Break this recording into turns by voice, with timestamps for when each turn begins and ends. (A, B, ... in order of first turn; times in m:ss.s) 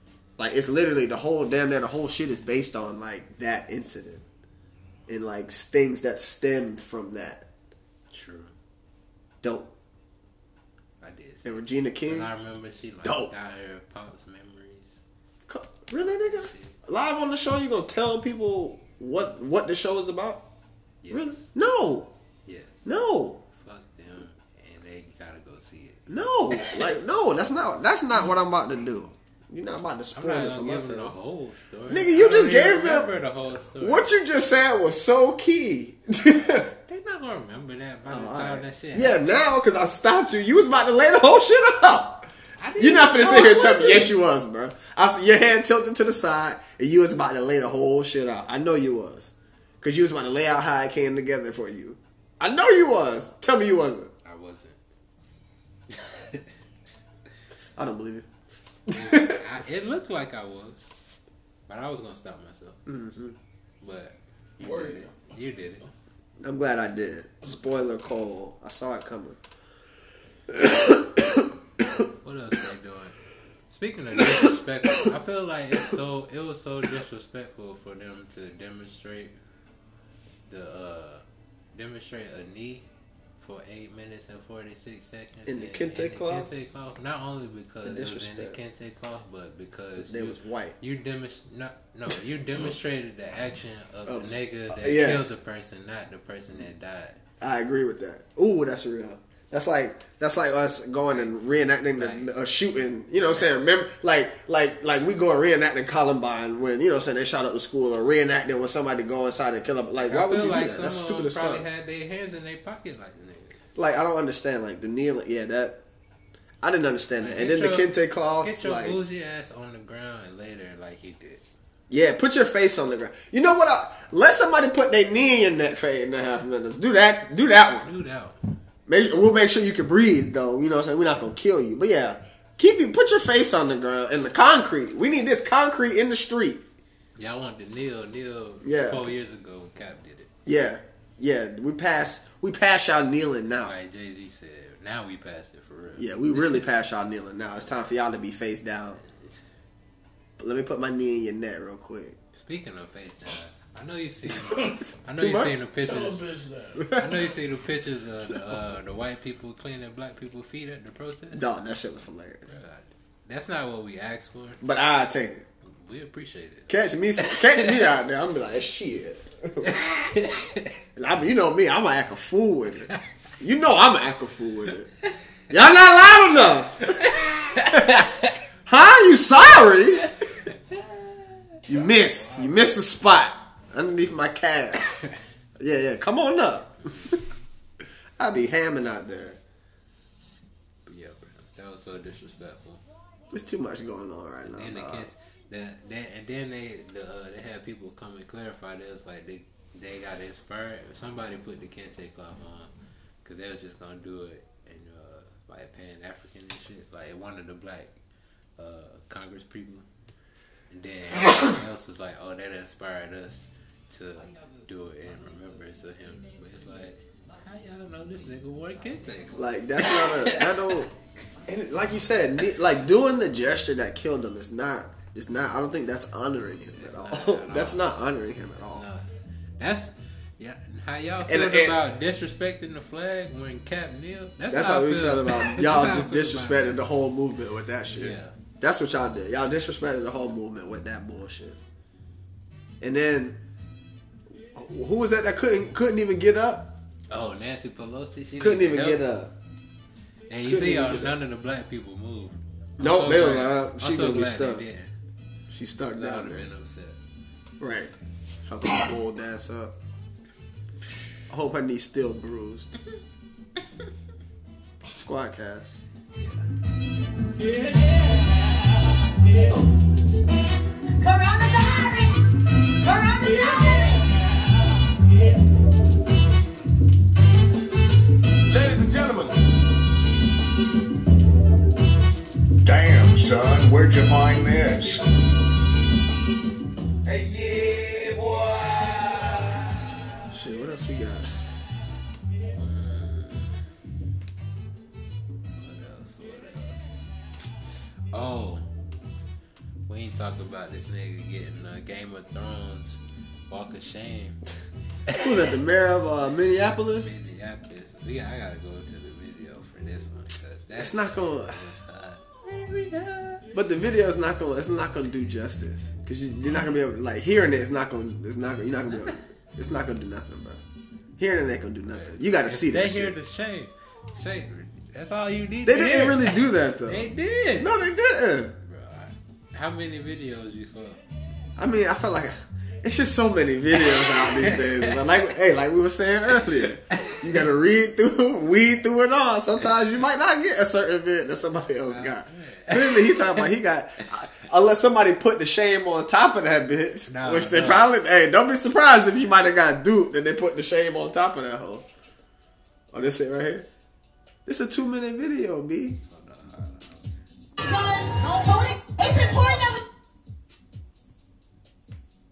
0:00.4-0:04.2 A
0:05.1-0:07.5 A
0:08.1-0:08.5 B
0:09.4-0:09.7 A
0:11.0-0:15.0 B
0:11.4-0:12.3 A
0:13.0-0:13.3 A
0:15.5-0:20.4 A
0:16.2-0:16.8 B
0:21.0-0:21.5 B
0:21.1-0:22.1 A
0:22.5-0:22.8 B
0:22.8-0:23.4 A
0:23.5-0:26.0 B
0:26.1-0:31.2 A
0:30.2-0:34.1 B
0:31.9-0:33.1 A
0:33.8-0:36.7 A
0:36.7-0:39.4 B
0:38.1-0:54.1 A
0:42.6-0:44.1 B
0:54.2-0:54.8 B
0:55.9-0:56.5 B
0:57.8-0:58.3 A
0:58.9-0:59.4 A
0:58.9-1:00.9 B
1:01.7-1:02.8 B
1:02.9-1:03.4 A
1:03.8-1:05.9 B
1:04.6-1:05.2 C
1:06.4-1:09.4 A
1:10.5-1:11.5 A
1:12.2-1:13.2 B
1:13.7-1:19.3 B
1:20.5-1:22.9 B
1:23.4-1:37.2 B
1:25.5-1:26.5 A
1:27.8-1:28.6 A
1:30.0-1:30.8 A
1:34.1-1:35.3 A
1:37.4-1:51.6 A
1:42.0-1:42.3 B
1:50.0-1:53.6 B
1:53.8-1:55.8 A
1:56.6-1:59.0 A
1:57.2-2:01.4 B
2:01.9-2:07.9 A
2:07.8-2:08.4 B
2:08.9-2:16.6 A
2:17.2-2:20.3 B
2:18.6-2:19.1 A
2:20.5-2:23.8 A
2:23.6-2:26.6 B
2:26.0-2:29.0 A
2:29.0-2:29.3 B
2:30.4-2:32.2 A
2:32.4-2:36.2 B
2:34.5-2:34.8 C
2:35.2-2:35.6 A
2:35.8-2:36.9 C
2:36.9-2:41.5 B
2:41.3-2:42.6 A
2:42.5-2:44.6 B
2:44.6-2:45.4 A
2:45.7-2:47.8 B
2:46.7-2:49.8 A
2:49.6-2:50.7 B
2:51.0-2:54.9 A
2:55.5-2:58.1 A
2:57.0-2:58.3 B
2:58.7-3:00.1 A
3:00.4-3:01.4 B
3:01.7-3:05.0 A
3:02.2-3:02.5 B
3:05.6-3:07.2 A
3:06.8-3:07.2 B
3:08.2-3:09.4 A
3:10.9-3:12.8 B
3:13.3-3:15.1 A
3:14.5-3:22.7 B
3:23.2-3:27.9 B
3:28.6-3:29.9 B
3:30.7-3:40.8 B
3:39.4-3:40.9 A
3:41.5-3:48.8 A
3:46.7-3:48.0 B
3:48.6-3:49.1 B
3:49.6-3:56.8 B
3:51.3-3:51.8 A
3:54.5-4:01.6 A
3:57.9-3:58.4 B
4:02.8-4:03.4 A
4:04.5-4:06.8 A
4:07.1-4:09.0 B
4:08.4-4:09.3 A
4:10.3-4:14.9 B
4:10.4-4:11.2 A
4:12.8-4:14.6 A
4:15.5-4:16.5 A
4:15.9-4:17.0 B
4:17.6-4:17.9 A
4:18.5-4:19.8 A
4:21.3-4:22.7 A
4:24.9-4:25.8 A
4:26.2-4:26.4 B
4:31.0-4:32.2 D
4:32.8-4:34.2 D
4:38.5-4:39.4 E
4:42.6-4:45.1 E
4:47.1-4:49.3 B
4:50.3-4:51.3 A
4:52.6-4:53.5 B
4:55.6-4:57.0 B
4:58.1-4:58.7 B
4:59.9-5:04.4 B
5:05.2-5:07.1 A
5:07.0-5:13.5 B
5:10.8-5:11.6 A
5:13.5-5:20.6 A
5:21.2-5:23.2 A
5:21.9-5:27.7 B
5:25.6-5:28.6 A
5:28.6-5:31.0 B
5:31.6-5:51.8 A
5:33.9-5:35.1 B
5:36.9-5:37.2 B
5:41.9-5:43.5 B
5:47.1-5:47.9 B
5:52.9-5:53.7 A
5:54.5-5:56.0 A
5:56.1-5:57.0 B
5:57.6-5:59.8 D